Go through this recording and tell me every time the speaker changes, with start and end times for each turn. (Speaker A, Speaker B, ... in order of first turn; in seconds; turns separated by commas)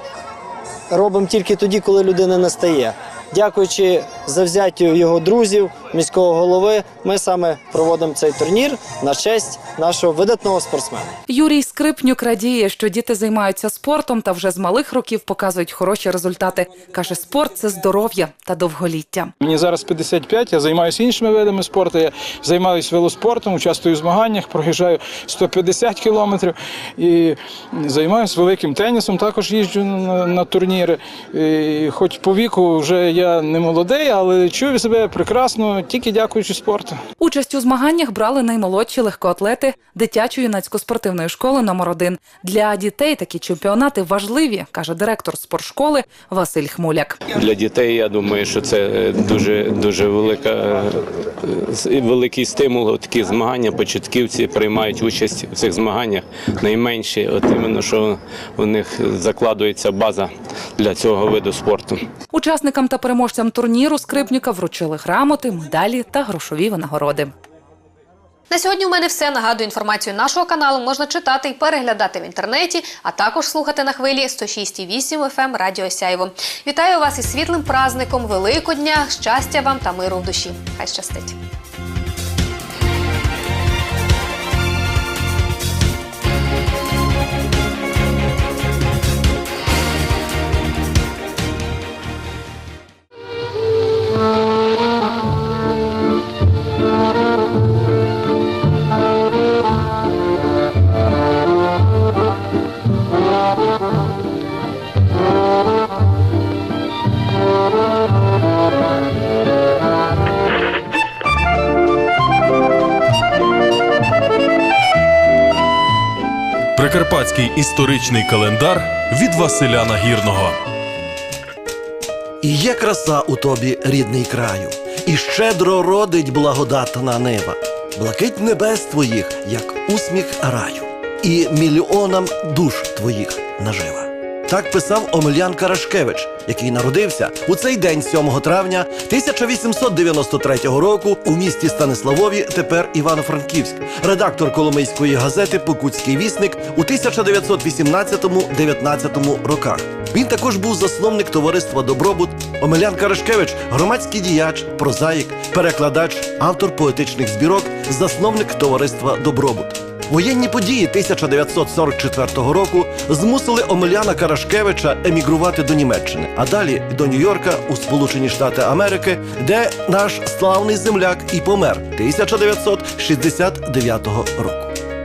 Speaker A: 0.9-11.1, Speaker B: 11.3-19.3, Speaker C: 19.4-37.0, Speaker B: 37.2-47.2, Speaker D: 47.3-62.0, Speaker B: 62.3-67.3, Speaker E: 68.5-81.4, Speaker F: 116.8-120.6, Speaker G: 122.4-174.8